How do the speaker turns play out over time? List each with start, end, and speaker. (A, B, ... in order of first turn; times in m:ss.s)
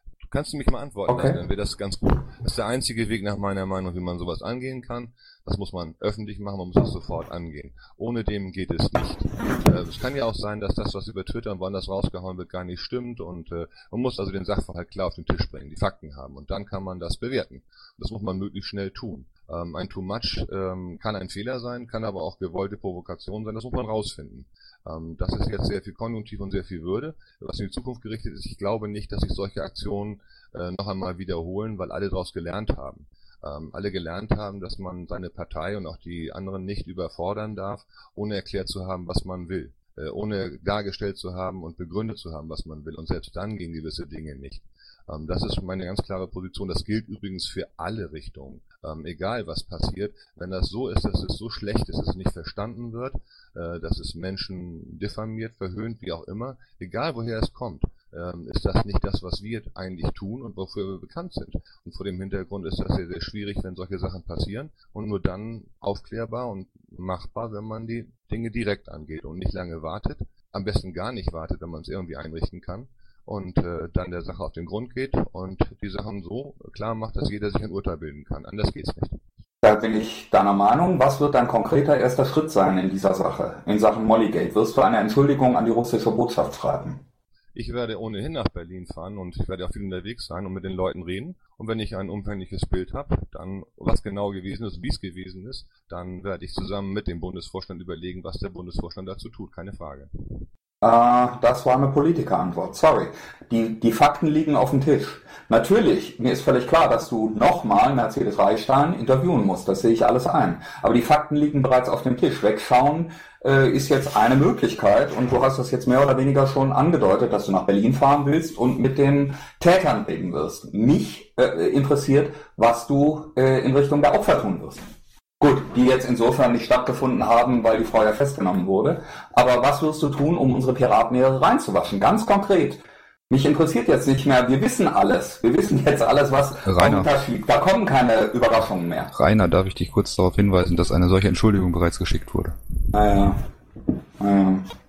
0:00.3-1:19.2 A
0:01.1-0:01.4 B
1:19.6-1:27.0 B
1:27.6-1:40.4 A
1:40.8-2:04.9 B
2:05.4-2:19.1 B
2:16.6-2:17.1 C
2:19.1-2:22.6 C
2:22.9-2:23.4 B
2:24.2-2:24.6 B